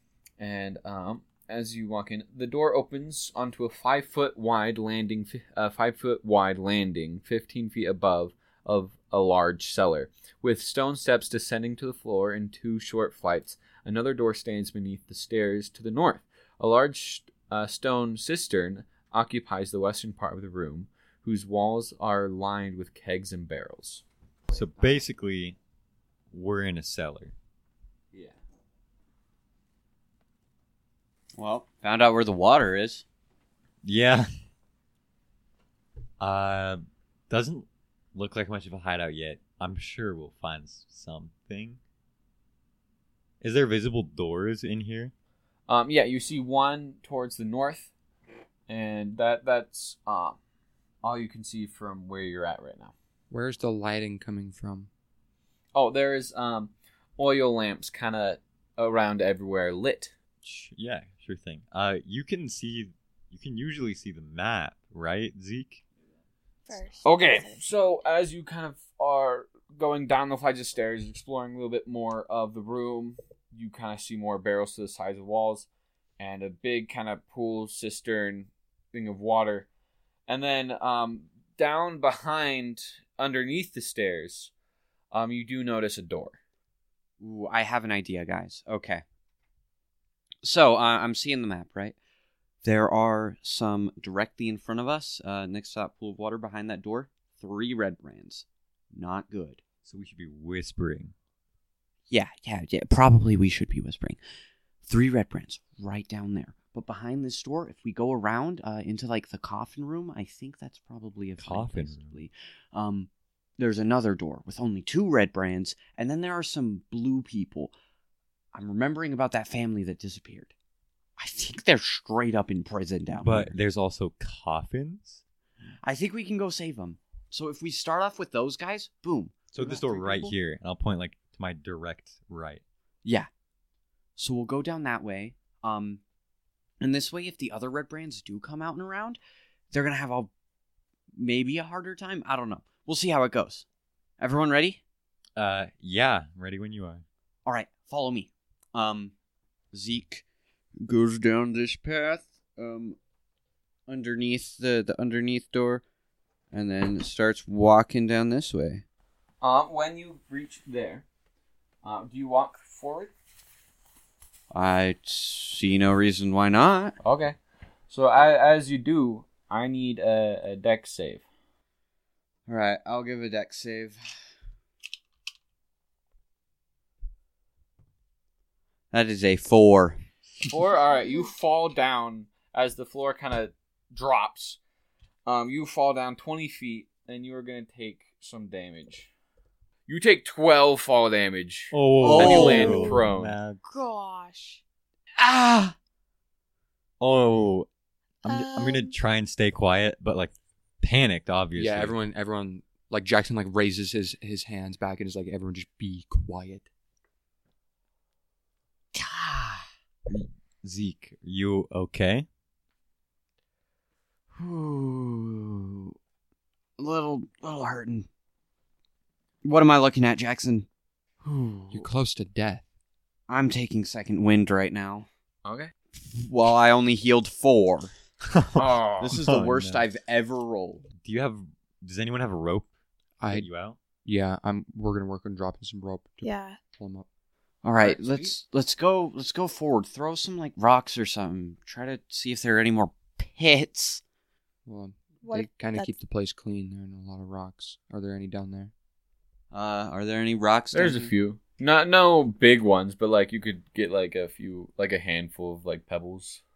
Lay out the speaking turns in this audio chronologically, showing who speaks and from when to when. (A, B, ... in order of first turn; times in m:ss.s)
0:00.4-0:25.0 A
0:24.5-0:25.6 B
0:26.3-0:27.3 B
0:31.4-0:33.0 C
0:33.8-0:34.3 B
0:36.2-0:41.8 B
0:43.4-0:45.1 B
0:45.7-0:47.9 A
0:48.7-0:50.4 A
0:51.0-0:52.9 A
0:53.3-0:54.9 D
0:55.7-1:00.1 A
1:00.4-1:05.8 B
1:06.7-1:07.6 E
1:07.0-1:15.7 A
1:16.2-1:19.7 A
1:20.3-1:24.5 A
1:25.1-1:26.4 A
1:27.2-1:29.0 C
1:30.4-1:32.0 C
1:32.6-1:39.6 C
1:39.8-1:41.1 B
1:42.1-1:44.2 C
1:44.8-1:57.7 C
1:51.4-1:52.2 B
1:58.5-2:00.5 C
2:01.2-2:03.6 C
2:03.2-2:05.2 B
2:05.8-2:10.3 C
2:09.5-2:12.6 B
2:14.2-2:16.0 C
2:16.8-2:19.2 C
2:19.7-2:20.3 C
2:21.2-2:23.6 C
2:24.2-2:24.8 C
2:25.4-2:27.0 B
2:27.4-2:29.1 C
2:29.7-2:30.2 C
2:30.8-2:33.0 C
2:33.9-2:35.8 C
2:36.5-2:38.8 C
2:39.4-2:41.0 A
2:41.8-2:43.1 A
2:44.5-2:47.0 C
2:47.0-2:47.4 A
2:47.9-2:51.2 A
2:52.5-2:54.0 C
2:58.9-3:00.0 C
3:00.5-3:04.6 A
3:01.0-3:01.2 E
3:05.3-3:09.1 A
3:09.9-3:13.4 A
3:11.7-3:13.6 B
3:12.0-3:13.0 C
3:13.6-3:14.6 E
3:15.2-3:15.7 C
3:17.0-3:17.7 B
3:18.2-3:22.0 B
3:18.3-3:18.9 E
3:21.6-3:26.7 D
3:28.9-3:29.7 C
3:30.1-3:32.3 B
3:34.3-3:35.9 C
3:36.8-3:38.1 C
3:39.4-3:40.7 C
3:41.2-3:41.9 C
3:41.7-3:42.6 D
3:43.3-3:45.1 C
3:45.4-3:45.7 A
3:45.9-3:47.9 C
3:48.3-3:49.9 B
3:48.6-3:49.2 A
3:49.0-3:50.9 C
3:51.0-3:52.7 B
3:53.2-3:53.5 D
3:53.3-3:53.8 B
3:54.0-3:57.0 D
3:56.2-3:56.6 E
3:57.6-4:04.0 C
3:57.8-3:58.3 A
4:04.6-4:08.7 D
4:05.2-4:05.9 E
4:09.5-4:11.1 C
4:10.7-4:16.4 A